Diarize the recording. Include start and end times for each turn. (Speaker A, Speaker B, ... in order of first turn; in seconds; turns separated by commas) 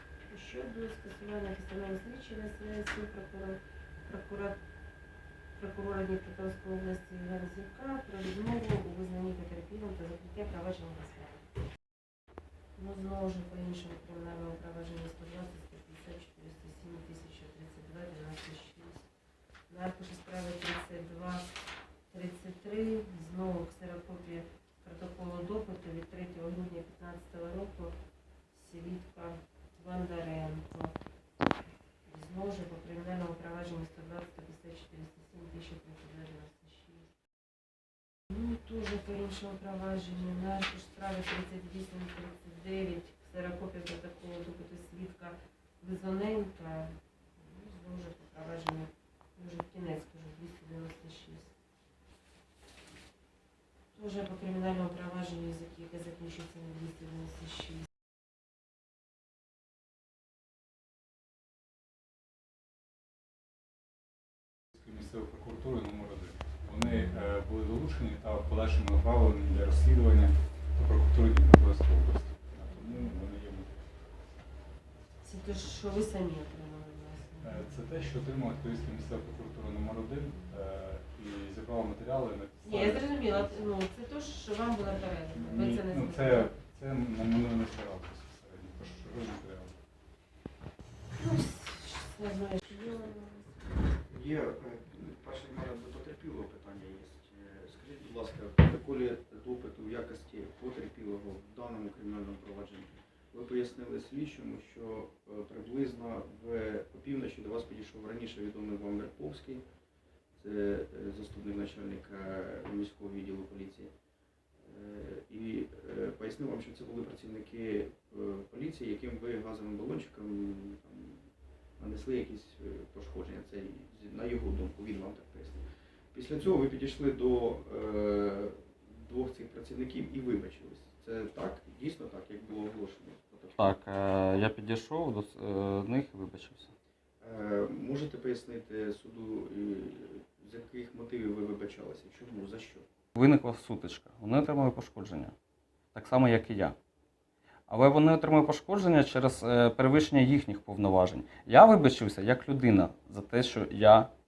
Speaker A: 0.3-4.5, Speaker A: 5.6-11.4, Speaker A: 12.8-19.1, Speaker A: 19.7-21.5, Speaker A: 22.1-27.9, Speaker A: 28.5-30.9, Speaker A: 32.0-37.1, Speaker A: 38.3-51.5, Speaker A: 53.9-57.9, Speaker B: 64.8-73.7, Speaker A: 66.8-67.2, Speaker A: 72.7-73.1, Speaker A: 75.2-77.7, Speaker B: 77.4-83.6, Speaker A: 82.6-86.5, Speaker B: 85.3-89.8, Speaker A: 91.2-93.7, Speaker C: 94.1-109.6, Speaker C: 110.4-113.9, Speaker C: 114.6-121.2, Speaker C: 121.8-133.6, Speaker D: 133.6-136.7, Speaker C: 137.2-142.9, Speaker D: 143.2-145.3, Speaker D: 145.9-146.8, Speaker D: 147.7-154.1